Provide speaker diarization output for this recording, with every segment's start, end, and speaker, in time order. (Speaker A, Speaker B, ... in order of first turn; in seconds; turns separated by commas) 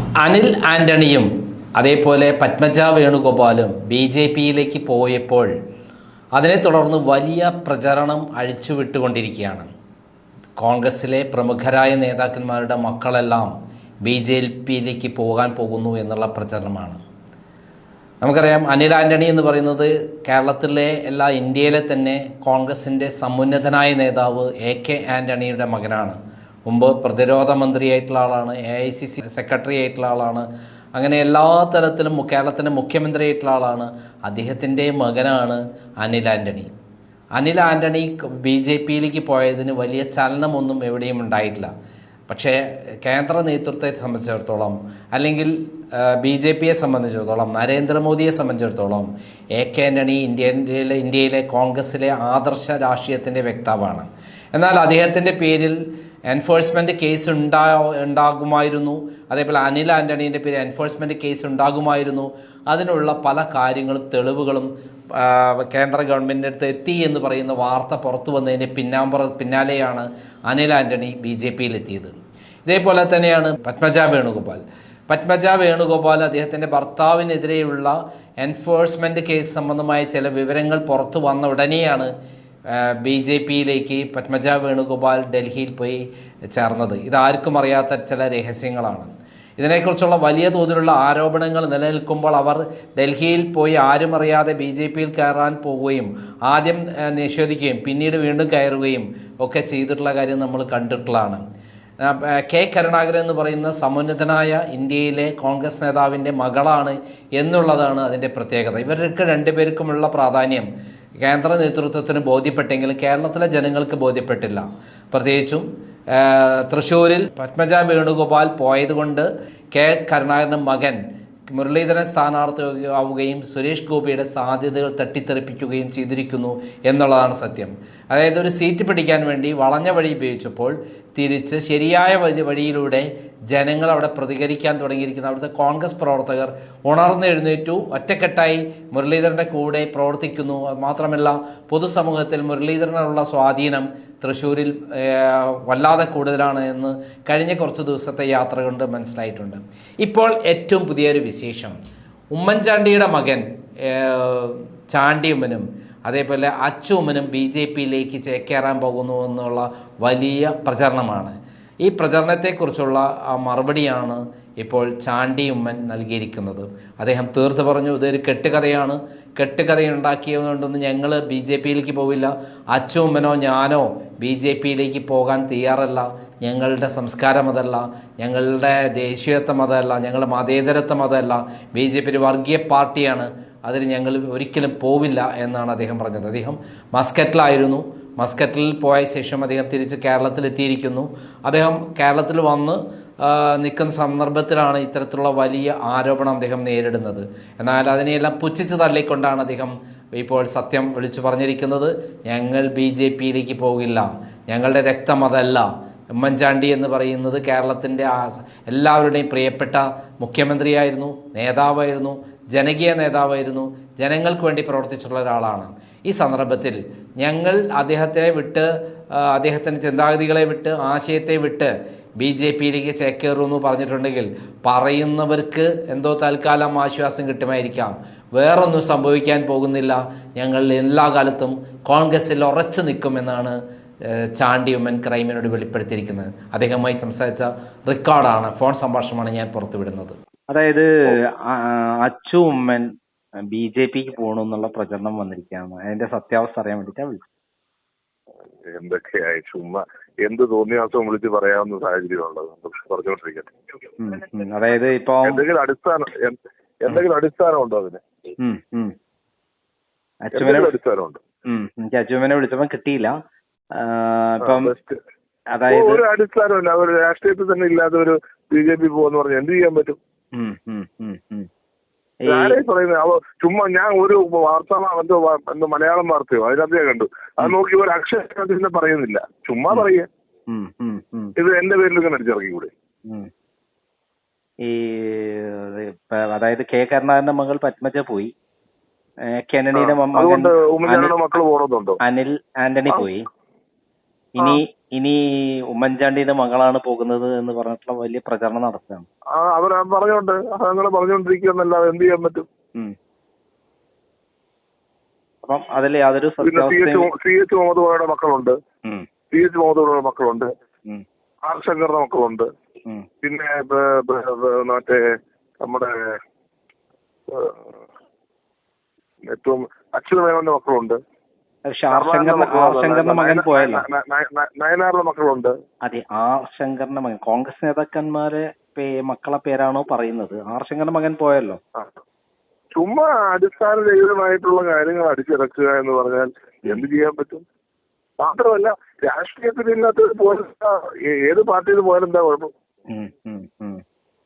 Speaker A: 0.2-5.5, Speaker A: 6.4-9.7, Speaker A: 10.6-13.5, Speaker A: 14.0-17.0, Speaker A: 18.2-36.7, Speaker A: 37.4-41.7, Speaker A: 42.3-55.8, Speaker A: 56.3-72.1, Speaker A: 72.7-82.1, Speaker A: 82.7-86.0, Speaker A: 86.5-101.4, Speaker A: 102.0-110.7, Speaker A: 111.2-151.8, Speaker A: 152.3-205.7, Speaker A: 206.2-233.6, Speaker A: 234.3-240.2, Speaker B: 240.5-242.9, Speaker B: 243.5-247.2, Speaker C: 248.6-253.5, Speaker B: 254.0-255.4, Speaker C: 255.2-258.0, Speaker B: 258.4-258.9, Speaker B: 260.2-260.7, Speaker C: 260.3-261.2, Speaker B: 261.4-263.1, Speaker B: 263.8-264.7, Speaker C: 264.4-265.0, Speaker B: 265.5-266.0, Speaker C: 265.7-270.0, Speaker B: 270.3-271.5, Speaker B: 272.2-272.6, Speaker C: 272.2-280.1, Speaker B: 280.5-281.3, Speaker C: 281.4-282.7, Speaker B: 284.6-288.3, Speaker B: 289.4-291.1, Speaker C: 289.7-292.0, Speaker B: 292.0-293.3, Speaker B: 294.3-295.2, Speaker B: 295.7-299.1, Speaker C: 299.3-302.5, Speaker B: 305.4-307.1, Speaker C: 306.4-308.6, Speaker C: 309.3-310.5, Speaker C: 311.4-312.5, Speaker C: 313.2-316.2, Speaker C: 317.3-317.6, Speaker C: 319.3-321.0, Speaker B: 321.7-323.9, Speaker C: 321.9-325.5, Speaker B: 325.9-331.6, Speaker C: 332.8-337.4, Speaker C: 338.2-342.5, Speaker B: 342.9-343.8